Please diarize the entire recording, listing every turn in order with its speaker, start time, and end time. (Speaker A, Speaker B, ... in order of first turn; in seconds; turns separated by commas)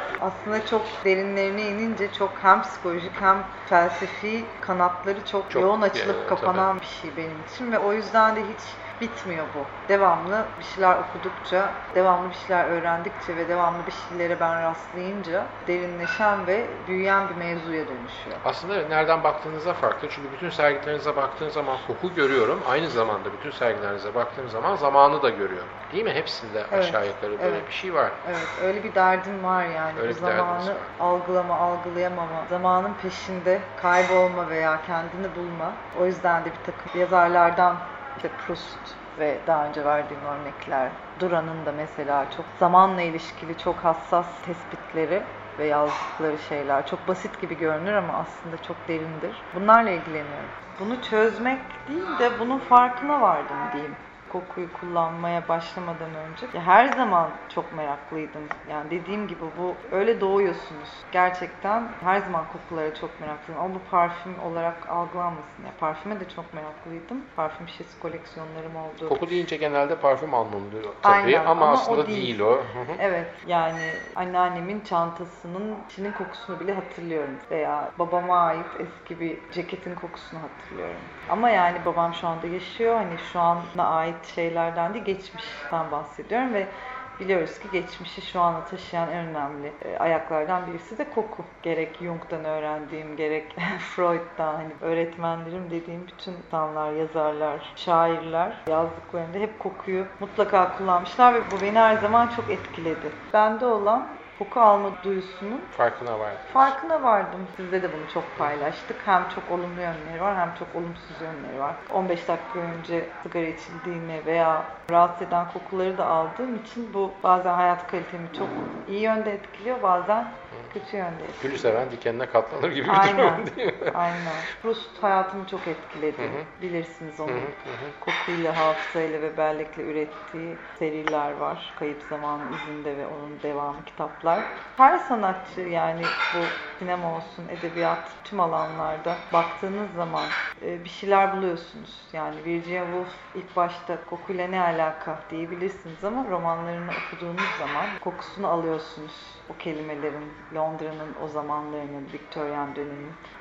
Speaker A: 0.2-18.4, Speaker B: 5.5-6.7, Speaker B: 18.4-28.2, Speaker A: 26.7-27.6, Speaker A: 28.2-69.4, Speaker B: 29.9-30.9, Speaker B: 69.1-73.0, Speaker A: 71.0-72.4, Speaker A: 73.0-105.7, Speaker B: 105.7-106.7, Speaker A: 106.5-121.7, Speaker B: 121.4-124.1, Speaker A: 122.9-153.2, Speaker B: 126.2-126.5, Speaker B: 127.3-127.9